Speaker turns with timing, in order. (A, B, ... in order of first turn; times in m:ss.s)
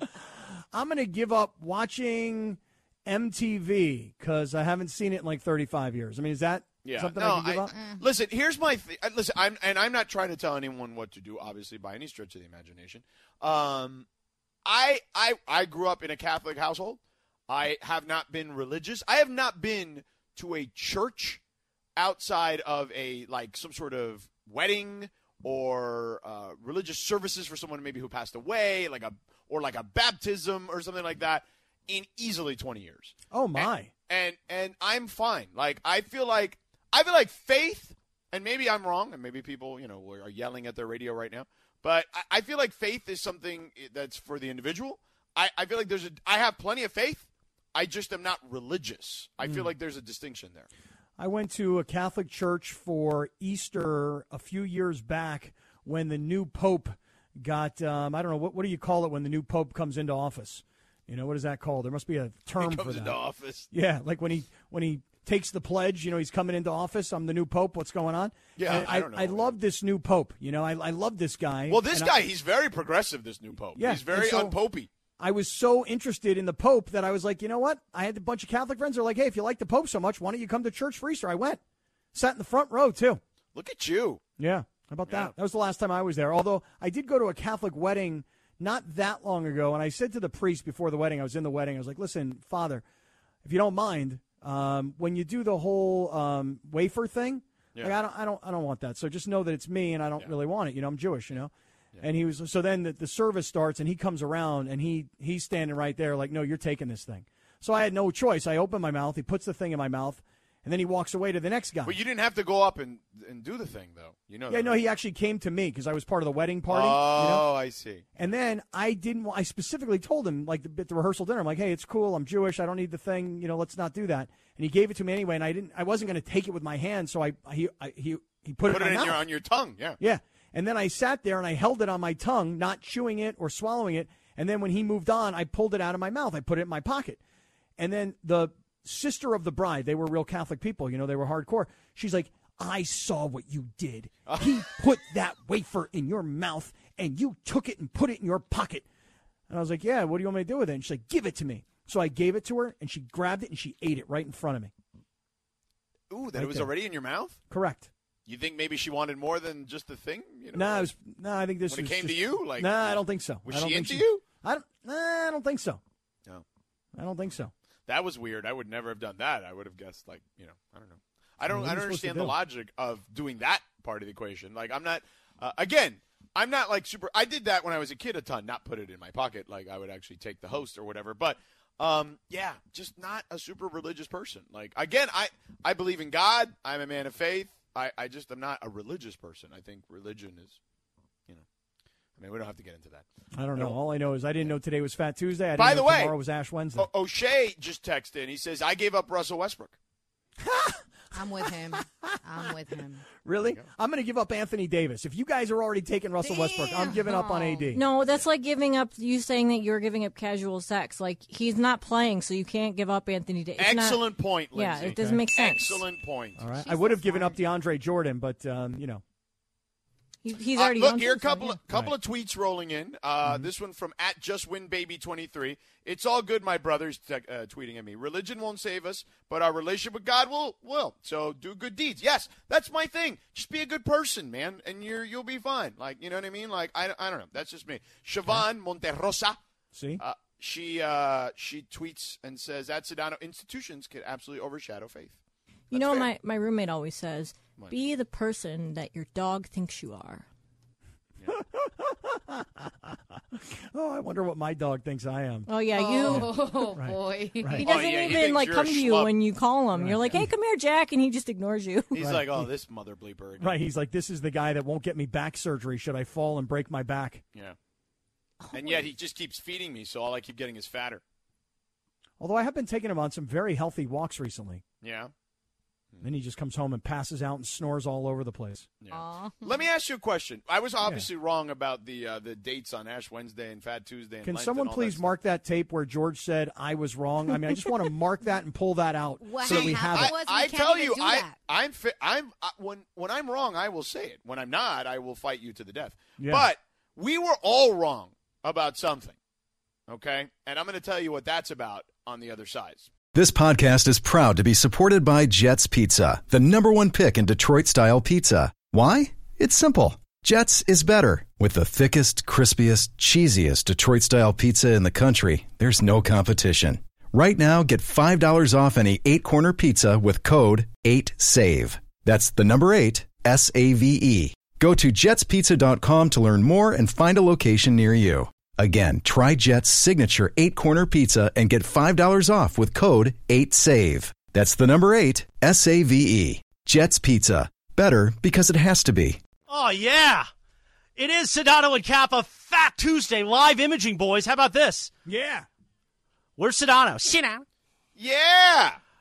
0:00.7-0:07.7 A
0:06.8-0:14.0 B
0:07.7-0:08.0 C
0:14.6-0:21.4 B
0:22.0-0:50.7 B
0:33.3-0:33.9 A
0:49.4-0:49.7 A
0:51.2-1:03.2 A
1:02.6-1:03.7 B
1:03.7-1:12.2 A
1:08.6-1:09.6 B
1:11.7-1:14.9 B
1:13.8-1:14.6 A
1:15.2-1:21.6 A
1:22.1-1:23.2 A
1:23.5-1:24.2 B
1:24.4-1:32.8 A
1:25.1-1:25.3 B
1:33.4-1:41.5 A
1:42.0-1:52.0 A
1:51.8-1:54.8 B
1:54.5-1:57.5 A
1:56.7-1:58.0 B
1:58.2-2:09.2 A
2:08.7-2:10.0 B
2:10.0-2:17.2 A
2:17.8-2:28.8 A
2:24.3-2:24.7 B
2:29.5-2:34.7 A
2:36.1-2:37.4 B
2:36.3-2:36.7 A
2:37.5-2:37.9 A
2:38.2-2:40.9 B
2:40.5-2:45.8 A
2:41.7-2:44.2 B
2:47.0-2:47.5 A
2:47.9-3:10.6 B
2:51.5-2:52.4 A
3:12.2-3:13.8 B
3:13.3-3:16.9 A
3:15.6-3:16.1 B
3:16.8-3:19.7 B
3:20.4-3:20.8 A
3:21.1-3:23.0 C
3:21.4-3:22.5 A
3:23.2-3:27.8 A
3:26.2-3:27.7 C
3:27.7-3:35.8 D
3:33.6-3:36.4 B
3:35.0-3:35.2 A
3:36.4-3:39.0 A
3:36.5-3:37.4 C
3:40.2-3:41.6 D
3:40.6-3:59.4 B
3:59.7-4:00.0 A
4:00.0-4:05.1 B
4:05.7-4:06.1 B
4:05.7-4:10.2 D
4:11.3-4:15.5 A
4:15.5-4:16.4 D
4:15.7-4:18.2 C
4:16.0-4:17.7 A
4:17.6-4:19.1 B
4:17.6-4:22.0 D
4:19.7-4:20.3 A
4:21.9-4:23.6 B
4:21.9-4:22.5 A
4:23.4-4:27.2 A
4:28.4-4:28.8 C
4:28.5-4:31.0 B
4:32.2-4:34.6 A
4:34.8-4:35.1 B
4:36.0-4:38.7 A
4:38.8-4:45.1 B
4:38.9-4:39.6 C
4:44.2-4:50.1 A
4:49.2-4:51.4 C
4:49.4-4:59.1 B
4:56.2-4:56.5 A
4:59.9-5:02.9 B
5:03.1-5:39.2 E
5:39.5-5:40.3 F
5:41.0-5:44.9 F
5:45.0-5:45.5 A
5:46.4-5:47.4 F
5:48.0-5:48.8 B